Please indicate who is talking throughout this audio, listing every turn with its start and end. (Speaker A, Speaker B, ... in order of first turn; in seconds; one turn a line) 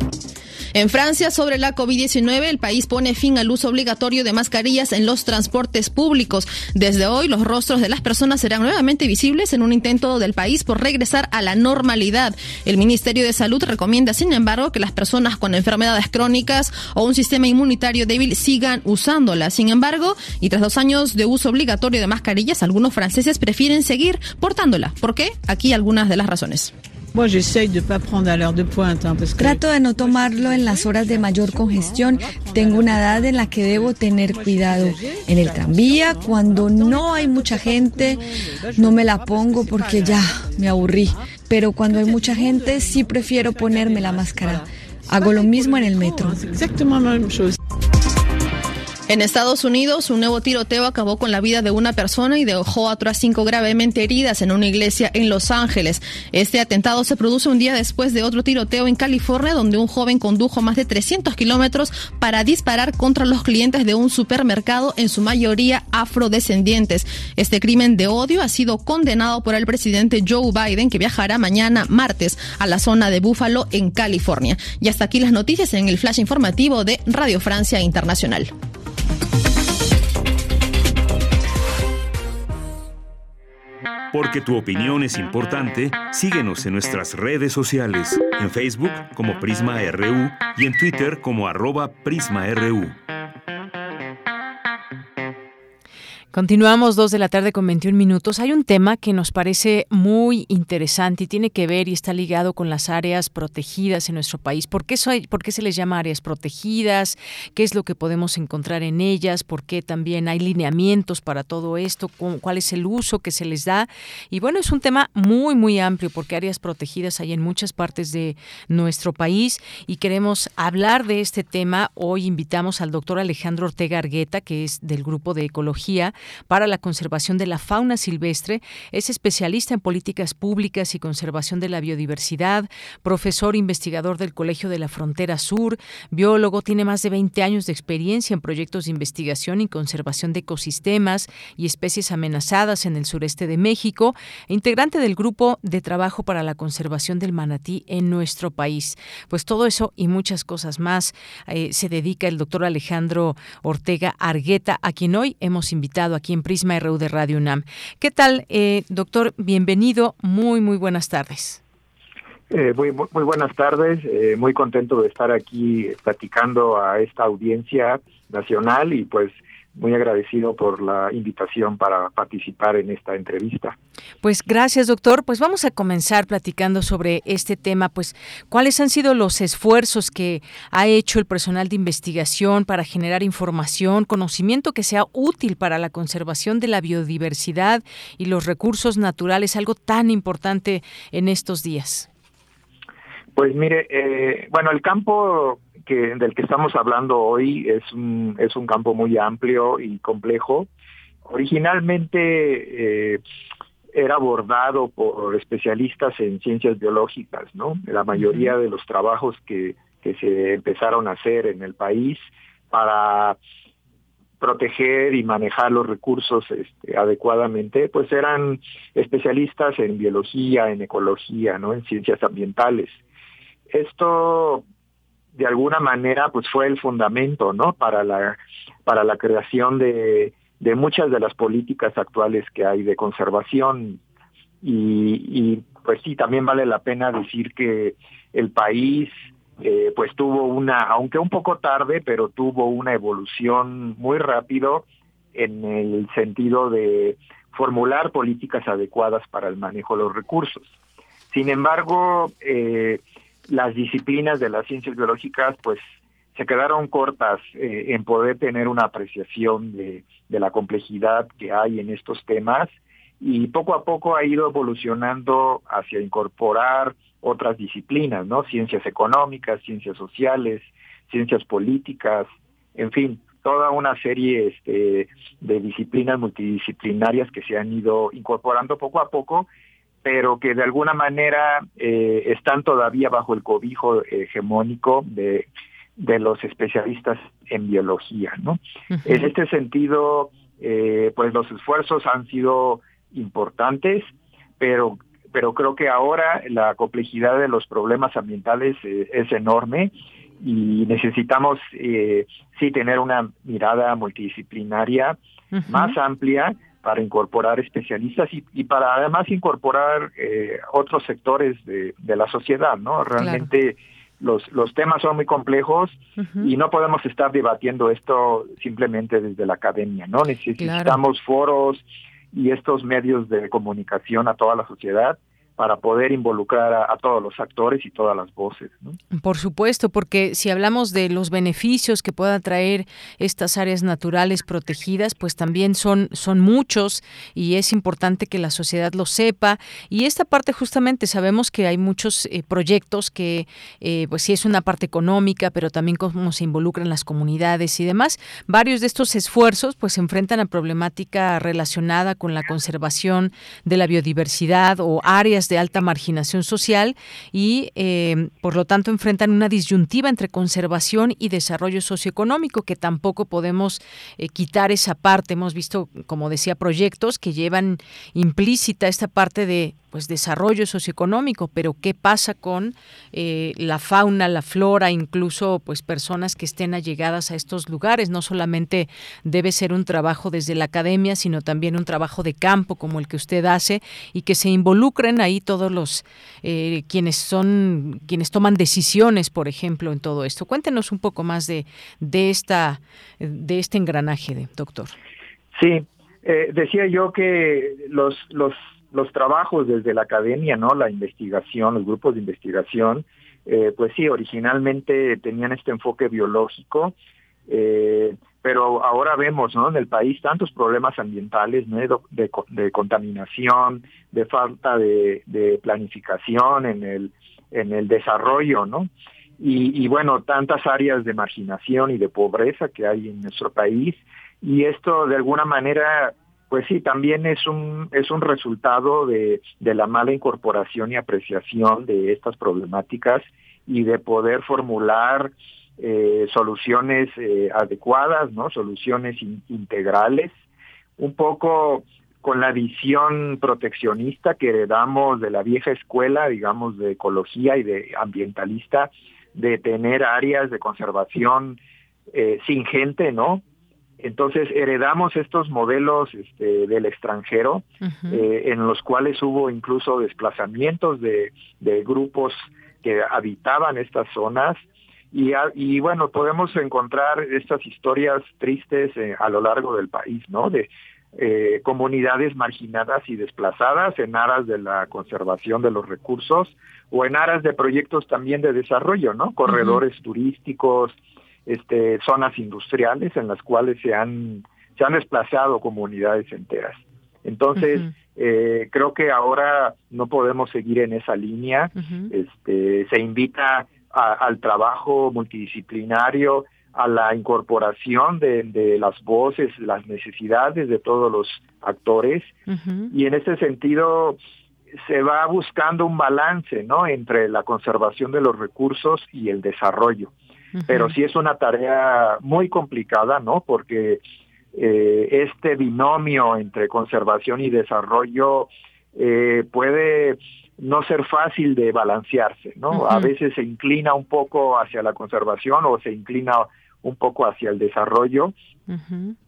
Speaker A: 0.7-26.7
Speaker B: 27.1-38.2
Speaker B: 38.7-46.7
Speaker A: 49.1-78.5
Speaker C: 84.1-93.0
Speaker D: 96.3-161.6
Speaker E: 162.5-173.8
Speaker D: 174.2-192.1
Speaker E: 193.4-200.7
Speaker E: 201.2-203.2
Speaker E: 203.9-213.4
Speaker D: 208.2-208.5
Speaker E: 214.4-223.0
Speaker E: 223.7-224.6
Speaker E: 225.4-234.0
Speaker E: 234.6-250.7
Speaker E: 251.3-279.5
Speaker E: 280.0-285.5
Speaker E: 286.0-329.0
Speaker D: 288.9-289.3
Speaker D: 305.5-306.0
Speaker D: 313.2-313.5
Speaker D: 316.2-316.5
Speaker D: 320.6-321.0
Speaker D: 329.1-394.9
Speaker E: 395.5-406.9
Speaker E: 407.5-440.3
Speaker E: 441.0-451.6
Speaker E: 452.1-453.4
Speaker E: 454.0-481.0
Speaker D: 457.8-458.2
Speaker D: 479.5-479.8
Speaker E: 481.5-502.4
Speaker D: 487.6-487.9
Speaker D: 491.8-492.1
Speaker D: 502.5-502.9
Speaker E: 502.9-504.2
Speaker E: 504.8-510.1
Speaker D: 510.6-510.9
Speaker E: 510.7-514.0
Speaker E: 514.5-528.3
Speaker D: 522.7-523.1
Speaker D: 528.7-529.2